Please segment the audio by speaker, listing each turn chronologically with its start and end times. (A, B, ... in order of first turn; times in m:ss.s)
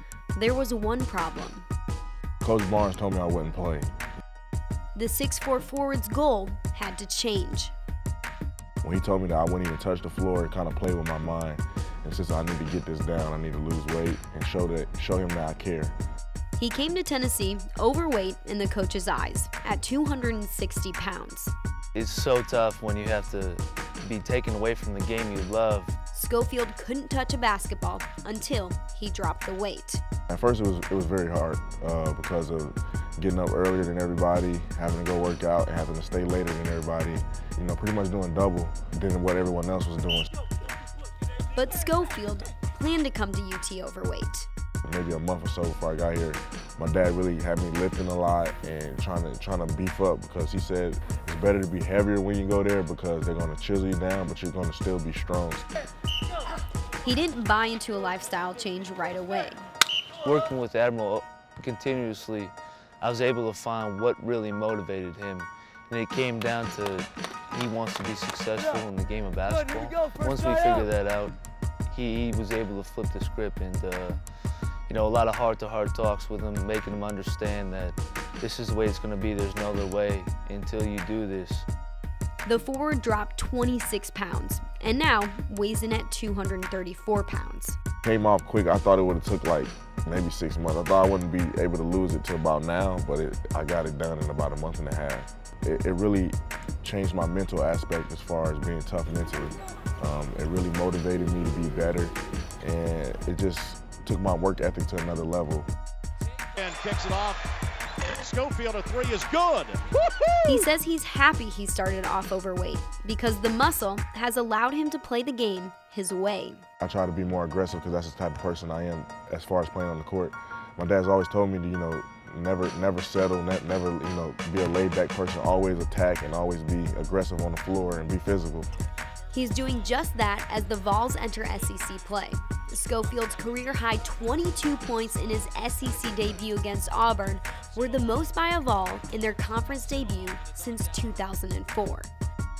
0:00.3-0:01.6 A
0:02.4-0:03.9 B
0:04.9-0:07.7 A
0:08.8-0:15.9 B
0:16.6-0:21.5 A
0:21.9-0:25.9 C
0:26.1-0:30.0 A
0:30.3-0:40.3 B
0:41.5-0:44.5 A
0:44.8-0:55.6 B
0:57.0-0:59.6 A
1:00.2-1:11.4 C
1:11.9-1:14.2 C
1:14.9-1:21.6 C
1:22.4-1:27.8 A
1:28.0-1:45.6 B
1:46.6-1:47.4 D
1:48.0-1:49.8 D
1:50.4-1:56.6 A
1:56.8-2:08.7 B
2:09.3-2:22.1 A